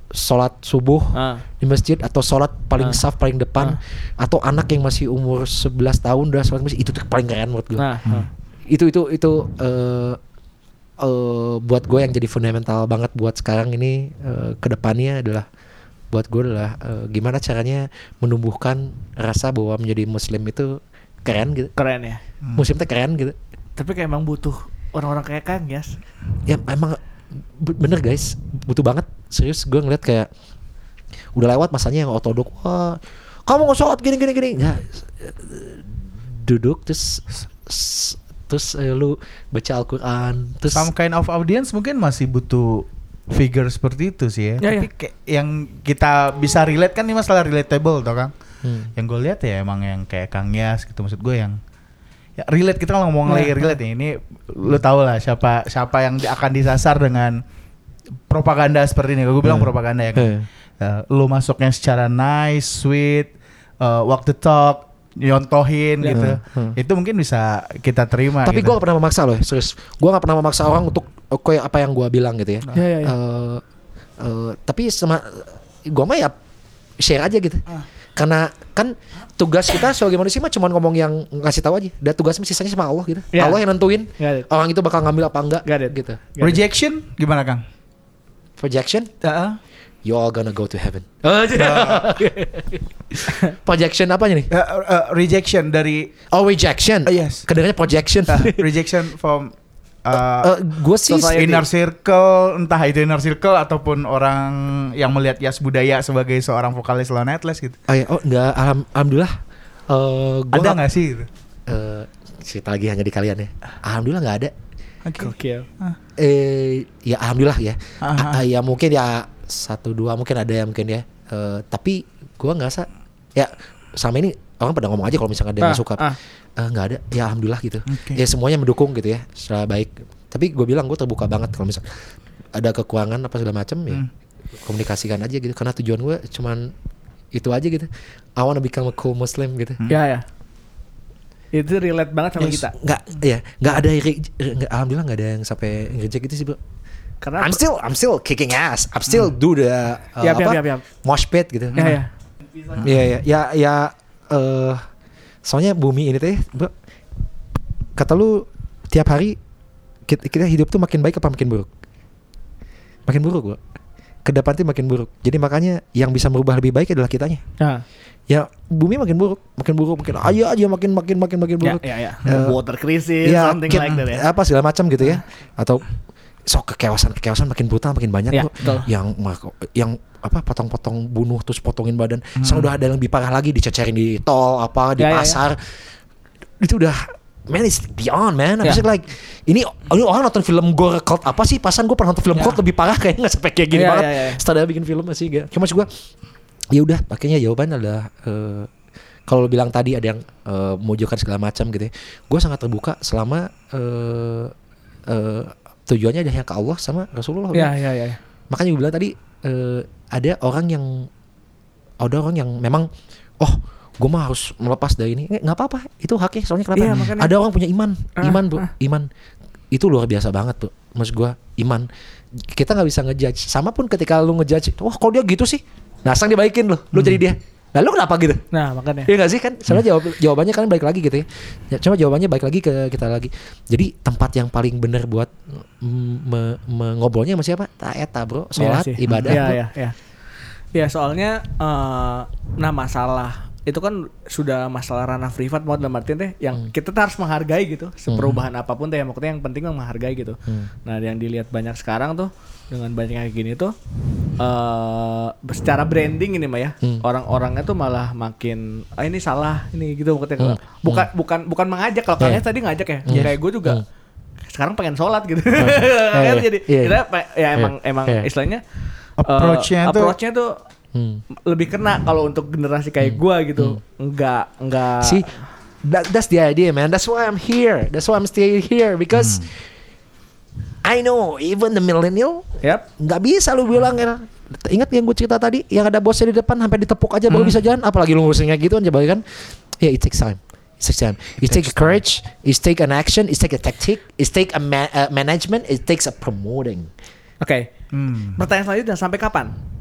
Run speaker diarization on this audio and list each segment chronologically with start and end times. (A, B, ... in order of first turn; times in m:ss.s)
0:00.1-0:07.9 A
0:01.2-0:01.4 B
0:07.8-0:08.3 B
0:08.7-0:10.2 A
0:11.0-0:15.5 A
0:16.1-0:21.7 A
0:21.8-0:22.2 B
0:22.6-0:23.4 A
0:23.8-0:26.0 B
0:26.5-0:27.0 A
0:27.6-0:30.3 A
0:31.4-0:40.9 A
0:40.7-0:48.3 C
0:44.6-0:44.9 B
0:48.6-0:48.9 A
0:49.0-0:51.6 C
0:52.4-0:57.4 C
0:53.3-0:53.6 B
0:58.3-1:08.8 C
0:59.4-1:00.5 A
1:06.0-1:06.3 B
1:06.1-1:06.8 A
1:08.4-1:13.6 A
1:12.7-1:13.2 B
1:14.2-1:16.4 A
1:17.0-1:17.6 A
1:18.2-1:26.2 A
1:23.3-1:23.6 B
1:24.2-1:24.5 B
1:25.6-1:26.6 B
1:26.4-1:27.6 C
1:28.6-1:29.1 A
1:29.2-1:29.6 C
1:30.0-1:34.5 A
1:31.6-1:32.1 C
1:34.5-1:36.1 C
1:36.3-1:38.7 A
1:37.1-1:37.5 C
1:38.3-1:39.5 C
1:40.0-1:40.5 C
1:40.4-1:41.6 A
1:41.1-1:41.6 B
1:41.3-1:47.8 C
1:47.9-1:49.4 A
1:49.9-1:50.8 A
1:50.5-1:51.3 C
1:51.7-1:54.5 A
1:55.0-1:56.0 C
1:55.2-1:55.7 B
1:56.2-2:11.8 A
1:58.0-1:58.4 C
2:05.6-2:06.2 B
2:07.9-2:08.2 C
2:12.6-2:14.0 A
2:14.6-2:16.7 A
2:17.3-2:19.8 A
2:19.9-2:20.2 B
2:21.5-2:22.7 B
2:22.4-2:26.6 A
2:27.2-2:27.6 B
2:27.4-2:31.9 A
2:30.2-2:30.8 B
2:31.7-2:32.0 C
2:31.8-2:32.1 B
2:32.8-2:34.8 A
2:35.4-2:36.7 A
2:38.0-2:39.4 A
2:40.1-2:41.7 A
2:43.1-2:43.6 A
2:44.2-2:47.4 A
2:48.3-2:52.6 A
2:51.6-2:54.3 B
2:53.2-2:55.8 A
2:53.7-2:54.0 C
2:56.5-3:05.6 A
2:58.3-2:58.9 B
3:02.4-3:02.7 C
3:05.0-3:05.4 B
3:06.6-3:15.9 A
3:13.7-3:14.4 B
3:16.7-3:18.7 A
3:19.3-3:24.5 A
3:25.1-3:27.7 A
3:27.5-3:28.2 B
3:28.5-3:31.1 A
3:32.0-3:39.1 A
3:36.8-3:37.3 B
3:38.2-3:38.7 B
3:39.7-3:48.4 A
3:46.9-3:47.2 C
3:48.5-3:49.1 B
3:49.1-3:59.6 A
3:58.6-4:00.0 B
3:59.1-3:59.4 C
4:00.7-4:13.7 B
4:08.1-4:08.4 A
4:14.4-4:23.8 B
4:20.4-4:21.1 A
4:23.1-4:23.8 A
4:24.5-4:28.6 B
4:25.6-4:27.0 A
4:27.6-4:28.3 A
4:29.2-4:30.2 C
4:29.3-4:30.6 B
4:30.9-4:31.2 A
4:31.5-4:35.4 B
4:33.0-4:33.8 A
4:35.0-4:35.3 A
4:35.8-4:39.5 A
4:39.2-4:39.4 C
4:40.8-4:56.9 A
4:47.3-4:47.6 C
4:57.4-4:57.7 B
4:57.9-4:58.4 C
4:58.4-4:59.6 B